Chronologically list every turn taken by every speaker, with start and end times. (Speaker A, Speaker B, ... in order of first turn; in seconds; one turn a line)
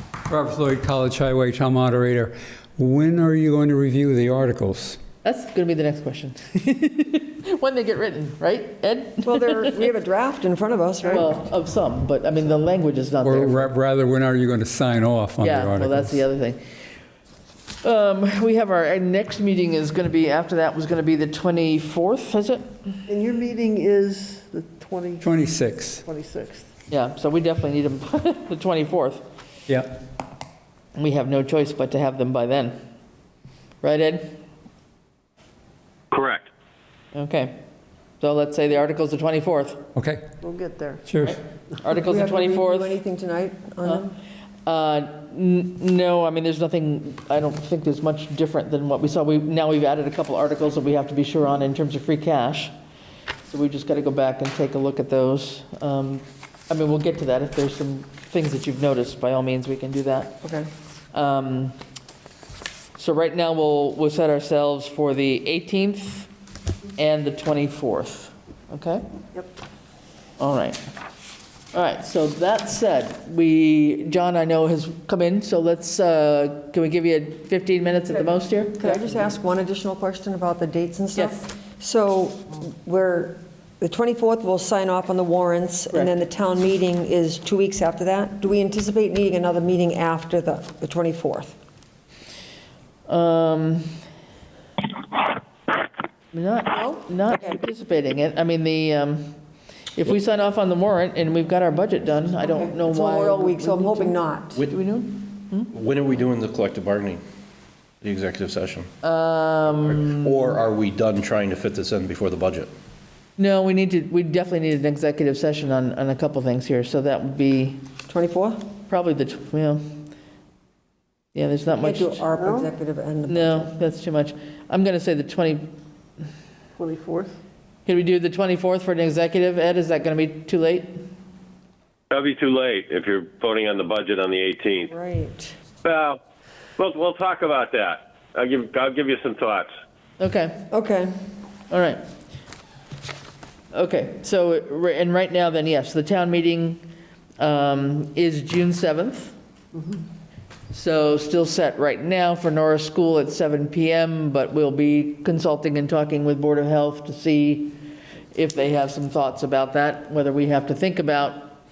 Speaker A: 0.3-5.0
Speaker B: 5.2-9.7
Speaker C: 9.2-11.3
Speaker B: 11.1-13.7
Speaker A: 13.2-16.2
Speaker B: 15.4-16.6
Speaker B: 17.8-22.8
Speaker D: 23.1-25.2
Speaker A: 25.2-26.0
Speaker D: 26.1-26.6
Speaker B: 26.9-29.2
Speaker B: 30.9-32.8
Speaker B: 33.8-34.3
Speaker E: 36.1-36.5
Speaker B: 37.1-37.6
Speaker B: 38.2-39.8
Speaker A: 39.9-40.2
Speaker D: 40.4-41.0
Speaker A: 41.1-41.4
Speaker B: 41.2-43.0
Speaker C: 41.9-44.1
Speaker B: 44.6-52.7
Speaker B: 53.5-60.4
Speaker C: 60.4-60.7
Speaker B: 61.1-61.8
Speaker B: 63.0-66.3
Speaker B: 67.0-69.0
Speaker B: 70.4-70.8
Speaker B: 71.7-79.2
Speaker C: 78.7-91.6
Speaker B: 93.1-93.9
Speaker B: 96.3-99.3
Speaker C: 97.3-97.5
Speaker B: 99.9-105.7
Speaker C: 102.4-104.6
Speaker F: 105.7-107.2
Speaker F: 108.0-108.9
Speaker B: 109.0-110.4
Speaker F: 110.0-112.7
Speaker B: 113.4-117.8
Speaker C: 118.1-118.6
Speaker B: 118.9-119.9
Speaker B: 121.3-122.2
Speaker C: 121.8-123.7
Speaker D: 122.3-122.7
Speaker B: 123.3-125.7
Speaker D: 126.8-127.3
Speaker B: 127.8-131.0
Speaker E: 132.1-134.9
Speaker C: 134.9-135.5
Speaker E: 135.8-136.2
Speaker E: 136.8-139.7
Speaker B: 140.2-140.6
Speaker C: 140.7-141.1
Speaker B: 141.7-142.0
Speaker B: 143.7-146.8
Speaker B: 147.4-149.3
Speaker B: 150.7-157.8
Speaker B: 158.3-161.6